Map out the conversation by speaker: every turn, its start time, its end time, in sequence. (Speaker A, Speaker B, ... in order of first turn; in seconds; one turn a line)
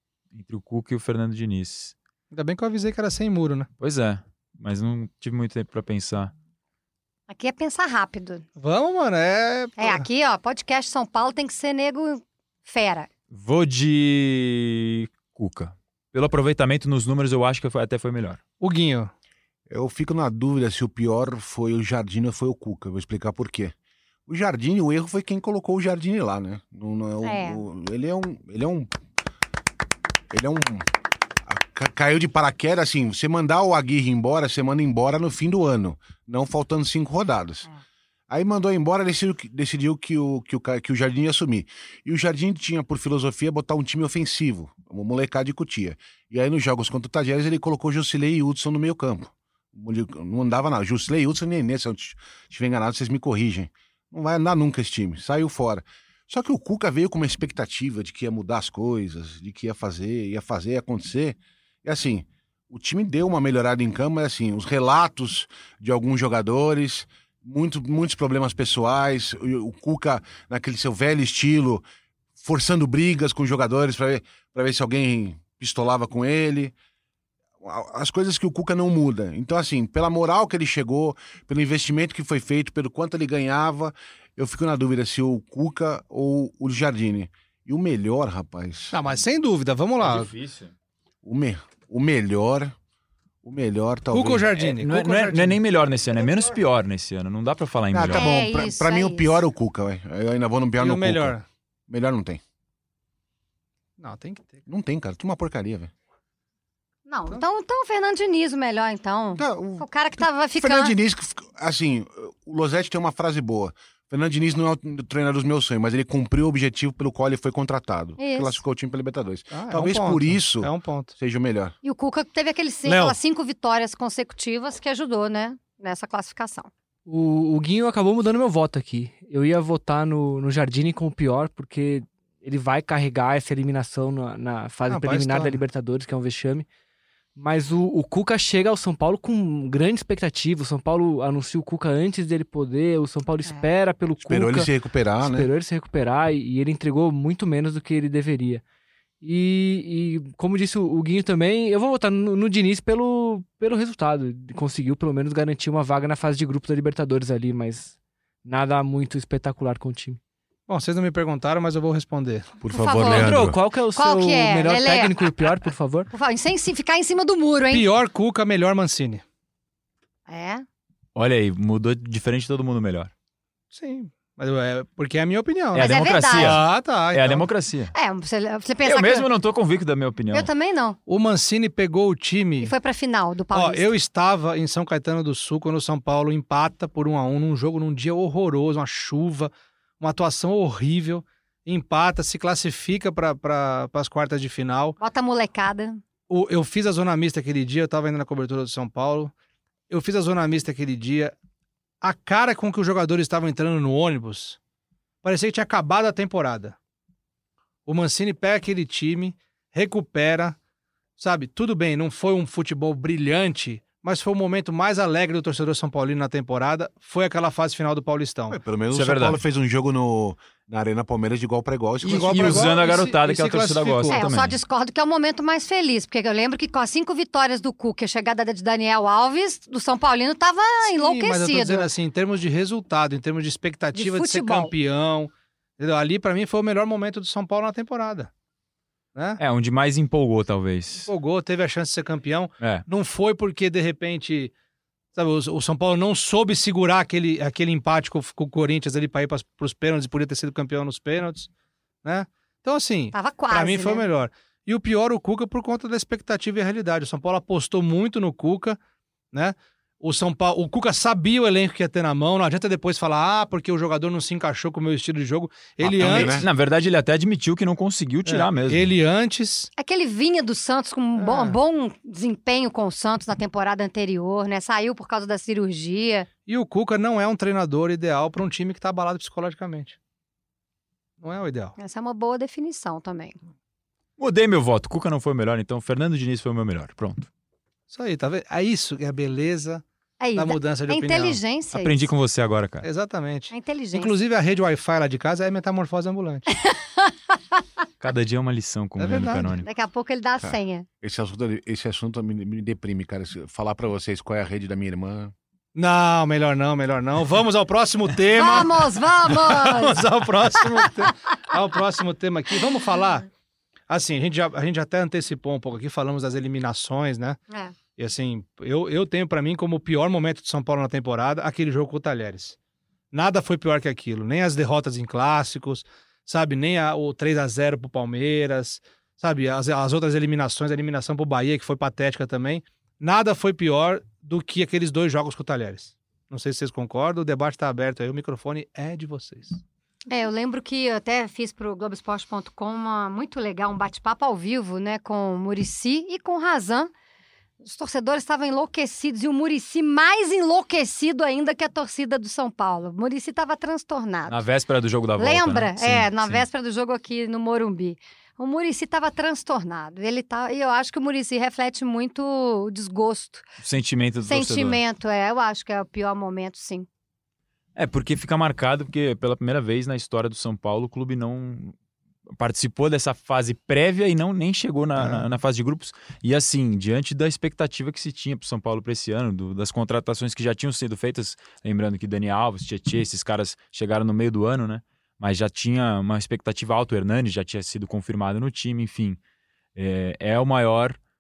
Speaker A: 0.3-1.9
Speaker B: 2.3-3.7
Speaker A: 3.8-6.3
Speaker C: 7.3-8.4
Speaker B: 8.6-10.1
Speaker C: 9.8-13.1
Speaker A: 13.3-18.4
Speaker B: 18.6-19.1
Speaker D: 19.7-23.7
Speaker D: 24.3-28.9
Speaker C: 27.2-27.6
Speaker D: 30.3-30.9
Speaker D: 31.5-37.7
Speaker D: 38.3-71.8
Speaker D: 72.4-76.7
Speaker D: 77.6-89.0
Speaker B: 88.9-90.3
Speaker A: 90.0-90.7
Speaker D: 91.2-92.7
Speaker D: 93.4-94.5
Speaker B: 94.1-95.6
Speaker A: 94.6-98.3
Speaker D: 97.9-101.3
Speaker C: 98.1-99.4
Speaker B: 100.8-101.5
Speaker D: 101.9-102.4
Speaker B: 104.0-104.6
Speaker D: 104.7-105.9
Speaker C: 107.1-110.9
Speaker D: 109.3-109.9
Speaker D: 110.6-121.7
Speaker C: 118.2-118.6
Speaker B: 119.5-121.1
Speaker C: 121.8-126.7
Speaker B: 122.8-123.2
Speaker E: 127.1-136.7
Speaker B: 134.9-135.6
Speaker E: 137.4-144.7
Speaker D: 144.2-145.5
Speaker E: 145.2-148.6
Speaker E: 149.2-160.2
Speaker B: 160.7-162.6
Speaker D: 162.6-163.6
Speaker C: 162.7-163.4
Speaker E: 162.9-166.1
Speaker C: 163.9-165.3
Speaker C: 166.1-167.9
Speaker B: 167.7-169.2
Speaker C: 170.3-170.7
Speaker A: 171.2-173.1
Speaker B: 173.7-177.5
Speaker A: 175.7-177.9
Speaker C: 175.8-176.6
Speaker C: 177.9-179.3
Speaker A: 178.8-180.5
Speaker C: 180.3-181.0
Speaker B: 181.1-182.7
Speaker C: 182.6-183.9
Speaker B: 183.5-195.0
Speaker C: 195.0-196.0
Speaker B: 196.3-199.3
Speaker B: 199.9-201.3
Speaker B: 202.0-204.6
Speaker B: 205.2-206.8
Speaker B: 207.9-210.6
Speaker B: 211.2-218.6
Speaker D: 218.5-222.8
Speaker A: 218.9-219.4
Speaker A: 222.0-224.6
Speaker B: 222.1-224.3
Speaker C: 224.1-231.9
Speaker B: 230.8-238.3
Speaker C: 233.9-234.7
Speaker B: 239.2-239.4
Speaker A: 239.4-241.1
Speaker B: 241.1-244.5
Speaker A: 242.6-242.9
Speaker B: 245.2-251.5
Speaker B: 252.0-258.8
Speaker C: 253.1-254.1
Speaker B: 259.3-266.4
Speaker D: 265.8-266.5
Speaker A: 266.0-268.9
Speaker B: 268.3-269.7
Speaker C: 269.8-276.3
Speaker B: 271.2-271.6
Speaker B: 276.5-280.0
Speaker B: 281.2-281.8
Speaker C: 281.8-283.4
Speaker A: 284.2-287.3
Speaker B: 287.9-289.8
Speaker C: 290.2-292.1
Speaker B: 290.4-291.4
Speaker A: 291.7-292.9
Speaker B: 292.8-296.5
Speaker C: 293.5-294.1
Speaker C: 296.6-297.1
Speaker A: 298.0-299.7
Speaker B: 299.0-299.5
Speaker C: 299.6-300.9
Speaker D: 300.4-305.3
Speaker B: 305.8-313.3
Speaker C: 308.3-310.0
Speaker B: 313.9-317.4
Speaker B: 318.0-322.6
Speaker B: 323.1-339.6
Speaker C: 340.1-346.9
Speaker C: 347.6-354.4
Speaker A: 354.3-356.4
Speaker C: 355.2-363.4
Speaker A: 363.6-364.8
Speaker C: 364.2-366.9
Speaker A: 367.8-371.8
Speaker A: 372.4-389.2
Speaker B: 375.0-375.3
Speaker A: 389.8-391.0